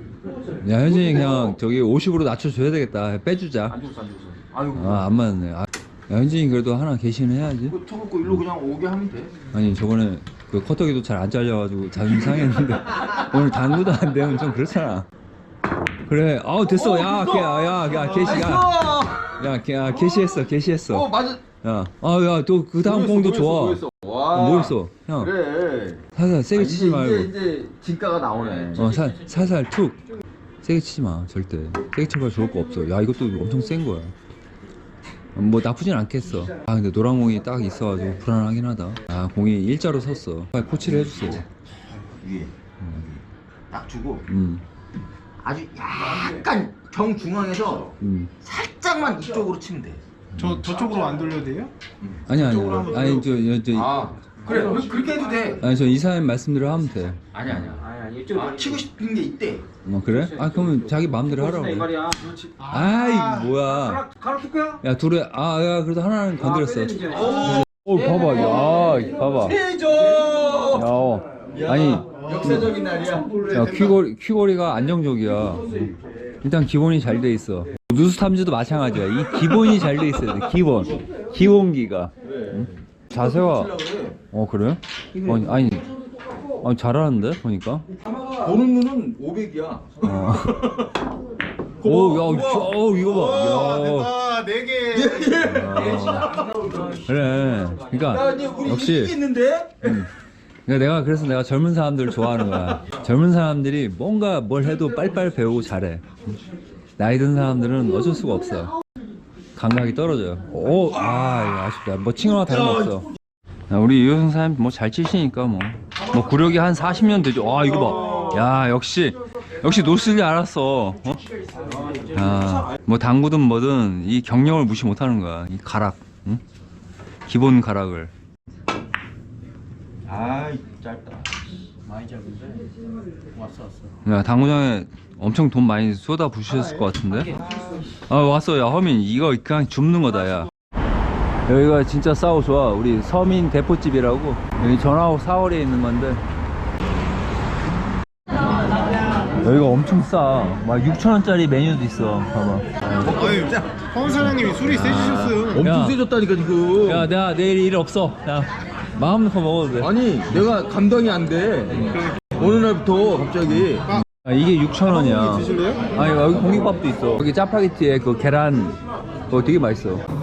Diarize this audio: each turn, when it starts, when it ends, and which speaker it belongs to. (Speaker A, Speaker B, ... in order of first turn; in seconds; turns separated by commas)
Speaker A: 0.6-3.8, Speaker B: 0.7-1.6, Speaker B: 3.7-5.1, Speaker A: 4.7-8.4, Speaker B: 7.7-9.3, Speaker A: 9.5-15.1, Speaker A: 16.1-25.3, Speaker B: 16.6-21.4, Speaker B: 22.8-28.9, Speaker A: 26.1-27.3, Speaker C: 28.5-29.1, Speaker A: 28.8-30.0, Speaker A: 30.6-34.1, Speaker A: 35.4-41.5, Speaker B: 40.7-44.3, Speaker A: 42.8-43.1, Speaker A: 44.3-44.6, Speaker B: 45.4-50.0, Speaker A: 48.0-48.3, Speaker A: 50.4-50.6, Speaker D: 50.4-51.7, Speaker A: 52.3-54.1, Speaker D: 52.3-53.3, Speaker B: 53.7-55.6, Speaker D: 54.5-55.5, Speaker A: 55.6-57.2, Speaker B: 57.3-59.7, Speaker C: 57.6-58.8, Speaker A: 59.9-61.9, Speaker C: 60.1-62.3, Speaker D: 62.2-63.5, Speaker A: 62.7-64.0, Speaker C: 63.5-64.8, Speaker A: 64.8-69.6, Speaker C: 66.4-69.0, Speaker B: 67.2-67.7, Speaker B: 68.5-70.9, Speaker A: 70.7-72.8, Speaker B: 71.5-74.0, Speaker A: 73.4-83.8, Speaker B: 82.2-84.2, Speaker A: 84.3-85.9, Speaker A: 86.6-87.9, Speaker B: 88.2-90.8, Speaker A: 90.0-90.9, Speaker B: 91.8-92.7, Speaker A: 91.8-94.2, Speaker D: 93.1-95.5, Speaker B: 94.9-97.1, Speaker A: 95.3-96.4, Speaker A: 97.0-99.2, Speaker B: 98.0-100.0, Speaker A: 99.8-100.1, Speaker A: 100.7-106.3, Speaker A: 107.0-108.7, Speaker A: 109.6-113.1, Speaker B: 112.5-113.0, Speaker A: 113.7-121.2, Speaker B: 117.9-118.4, Speaker B: 121.5-122.3, Speaker A: 122.1-126.4, Speaker A: 127.3-128.1, Speaker B: 130.1-131.3, Speaker C: 131.9-132.7, Speaker C: 133.3-133.9, Speaker A: 134.1-137.3, Speaker C: 136.8-137.8, Speaker A: 138.1-140.5, Speaker A: 141.5-146.2, Speaker A: 149.3-153.2, Speaker B: 152.9-153.8, Speaker D: 153.1-155.6, Speaker A: 154.1-156.0, Speaker B: 155.5-157.1, Speaker A: 156.8-159.9, Speaker B: 159.8-164.0, Speaker A: 163.8-168.8, Speaker D: 164.9-165.9, Speaker A: 169.3-170.0